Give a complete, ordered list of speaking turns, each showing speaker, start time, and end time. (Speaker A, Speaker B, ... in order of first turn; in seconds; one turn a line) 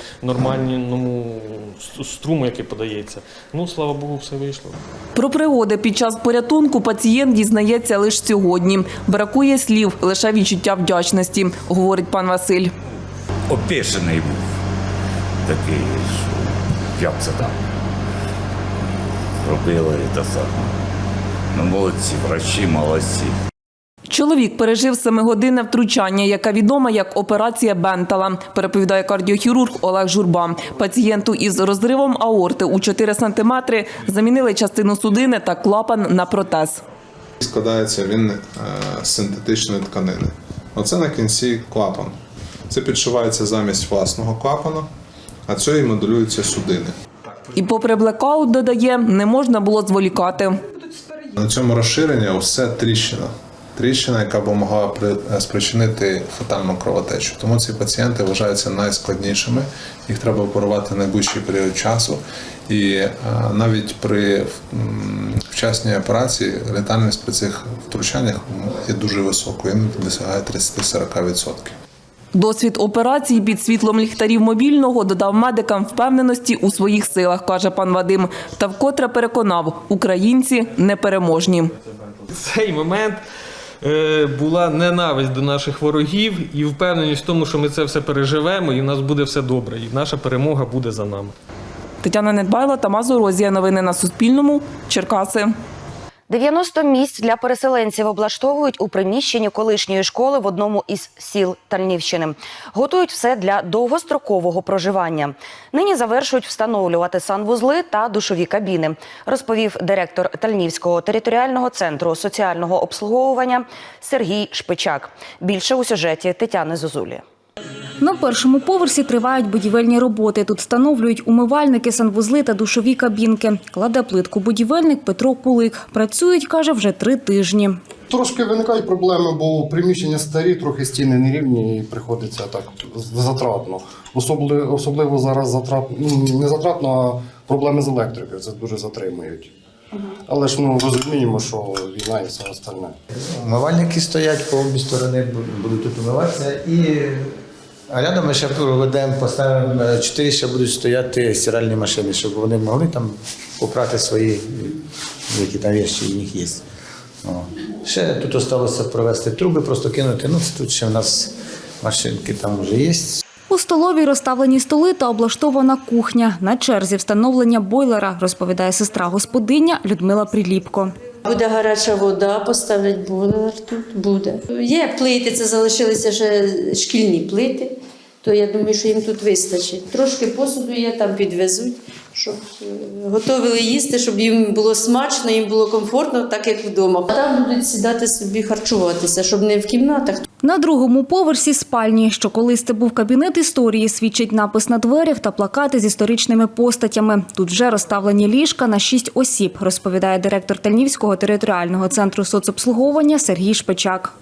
Speaker A: 5.2-12.7
Speaker B: 13.5-14.4
Speaker B: 15.4-16.3
Speaker B: 17.0-17.5
Speaker B: 19.4-20.6
Speaker B: 21.5-23.3
Speaker A: 24.1-36.8
Speaker C: 37.4-42.1
Speaker C: 42.7-44.9
Speaker C: 45.5-46.9
Speaker A: 47.5-50.6
Speaker C: 51.4-71.7
Speaker A: 72.3-81.7
Speaker D: 82.1-83.2
Speaker D: 83.9-91.3
Speaker A: 92.0-95.5
Speaker E: 96.3-117.2
Speaker F: 118.0-127.8
Speaker G: 128.1-139.5
Speaker G: 140.3-143.0
Speaker H: 143.1-147.3
Speaker H: 147.9-154.8
Speaker H: 155.3-156.6
Speaker H: 157.2-163.2
Speaker F: 163.5-170.9
Speaker I: 171.3-190.2
Speaker F: 190.4-204.1